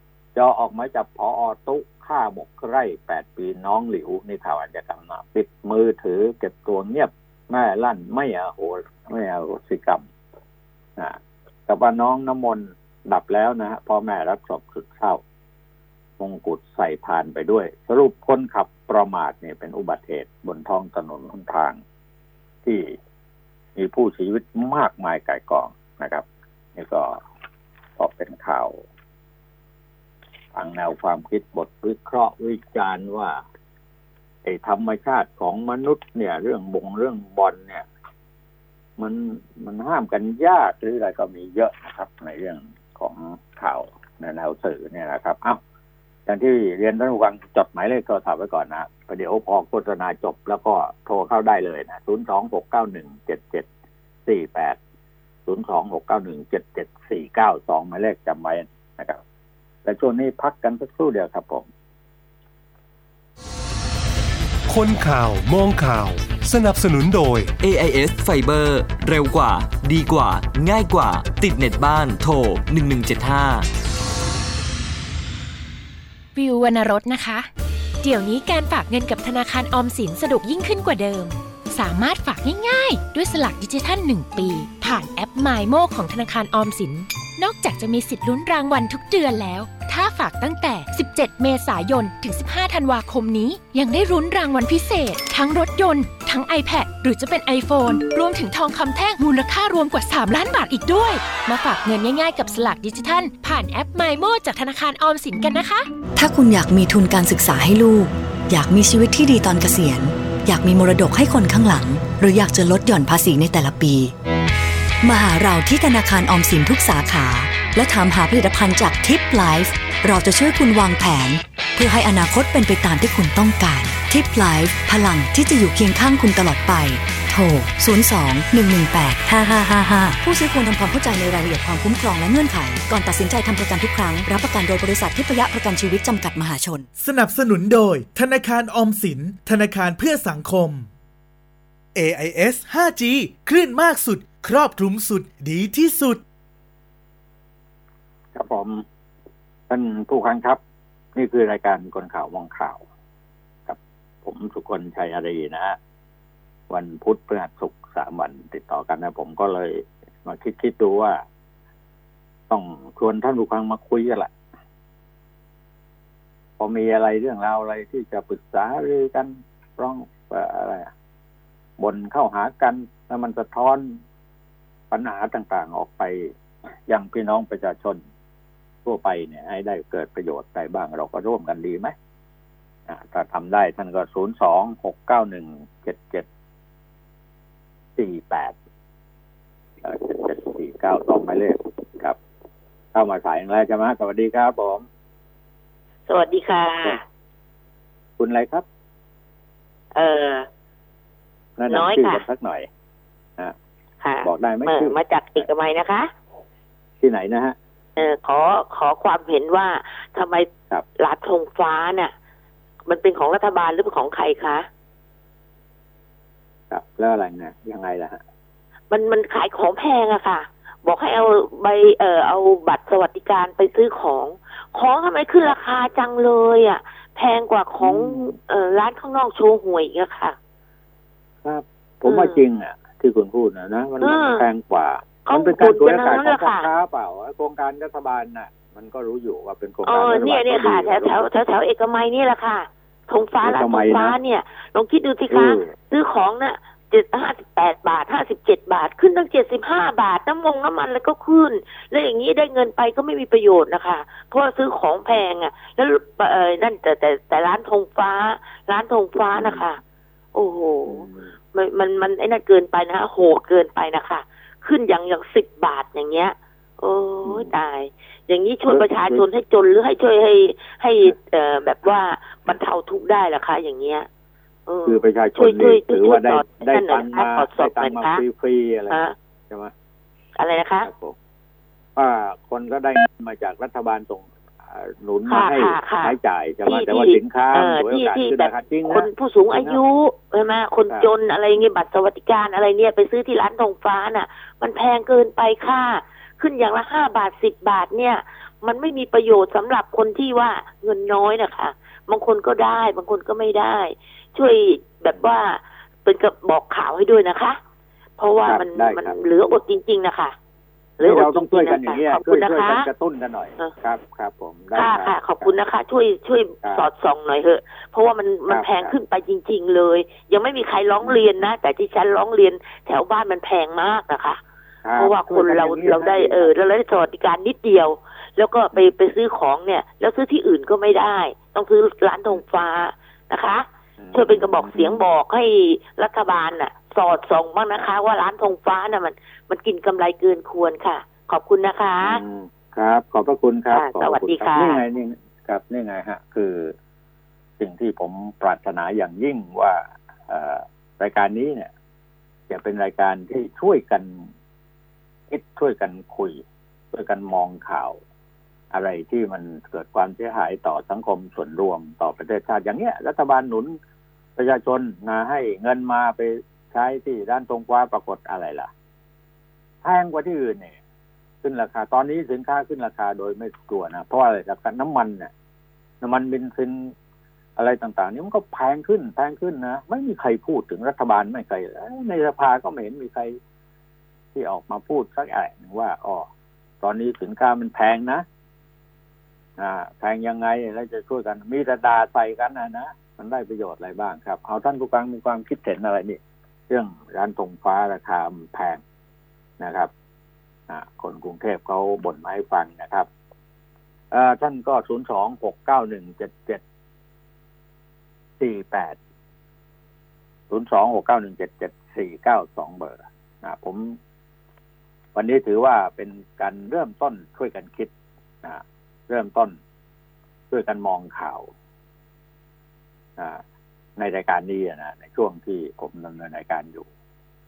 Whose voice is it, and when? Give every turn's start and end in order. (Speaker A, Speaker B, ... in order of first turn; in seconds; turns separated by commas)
Speaker A: 0.3-10.1, Speaker A: 11.0-15.2, Speaker A: 16.2-21.8, Speaker A: 22.6-22.9, Speaker A: 23.8-26.2, Speaker A: 26.8-27.1, Speaker A: 28.0-28.8, Speaker A: 30.6-33.4, Speaker A: 34.4-37.9, Speaker A: 39.0-45.6, Speaker A: 46.2-53.6, Speaker A: 54.2-54.8, Speaker A: 55.5-59.2, Speaker A: 59.9-61.7, Speaker B: 64.7-67.5, Speaker C: 67.6-73.7, Speaker D: 76.3-77.5, Speaker D: 78.0-105.9, Speaker E: 106.1-114.1, Speaker E: 115.0-136.9, Speaker F: 137.0-140.9, Speaker F: 141.9-146.2, Speaker A: 148.3-148.8, Speaker A: 149.7-150.6, Speaker A: 151.1-152.8, Speaker A: 153.7-155.8, Speaker A: 156.7-161.2, Speaker A: 162.5-164.3, Speaker A: 166.6-170.9, Speaker A: 171.8-174.0, Speaker A: 174.9-176.3, Speaker A: 176.9-178.0, Speaker A: 178.8-181.9, Speaker A: 182.9-186.2, Speaker A: 188.0-188.6, Speaker A: 189.8-192.2, Speaker A: 192.9-194.8, Speaker G: 196.1-197.0, Speaker A: 198.2-198.6, Speaker G: 199.9-200.5, Speaker A: 201.6-202.7, Speaker G: 201.7-202.2, Speaker G: 204.0-206.1, Speaker A: 204.2-205.5, Speaker A: 207.0-207.6, Speaker G: 208.0-210.5, Speaker G: 211.0-212.1, Speaker G: 212.9-214.7, Speaker A: 216.7-218.2, Speaker G: 218.9-230.4, Speaker A: 227.8-228.3, Speaker A: 231.4-241.3, Speaker G: 232.1-232.4, Speaker G: 234.0-234.4, Speaker G: 235.2-236.7, Speaker G: 239.9-259.8, Speaker A: 243.4-244.2, Speaker A: 245.3-245.7, Speaker A: 259.1-259.6, Speaker G: 260.3-274.1, Speaker A: 260.9-261.3, Speaker A: 267.2-267.5, Speaker A: 268.7-269.2, Speaker G: 274.7-278.2, Speaker A: 274.8-279.7, Speaker G: 280.4-280.9, Speaker A: 280.8-281.1, Speaker A: 281.9-289.1, Speaker G: 285.3-286.1, Speaker G: 286.6-307.6, Speaker G: 308.2-310.4, Speaker A: 308.4-309.1, Speaker G: 311.0-312.9, Speaker A: 311.0-315.5, Speaker G: 314.7-324.4, Speaker A: 318.5-318.9, Speaker A: 324.8-326.5, Speaker G: 325.0-342.2, Speaker A: 334.0-335.0, Speaker A: 342.0-346.7, Speaker G: 343.7-344.8, Speaker A: 347.6-351.7, Speaker A: 352.5-354.3, Speaker A: 355.3-358.0, Speaker A: 358.7-363.8, Speaker A: 364.4-368.7, Speaker A: 369.8-370.8, Speaker A: 371.4-375.3, Speaker A: 376.0-376.9, Speaker A: 377.6-383.4, Speaker A: 384.3-386.3, Speaker A: 386.8-388.2, Speaker A: 389.6-398.8, Speaker A: 399.6-399.9, Speaker A: 400.7-403.1, Speaker A: 404.1-406.6, Speaker A: 408.4-409.0, Speaker A: 410.5-414.0, Speaker A: 415.1-417.9, Speaker A: 418.4-419.6, Speaker A: 420.5-421.5, Speaker A: 424.0-426.9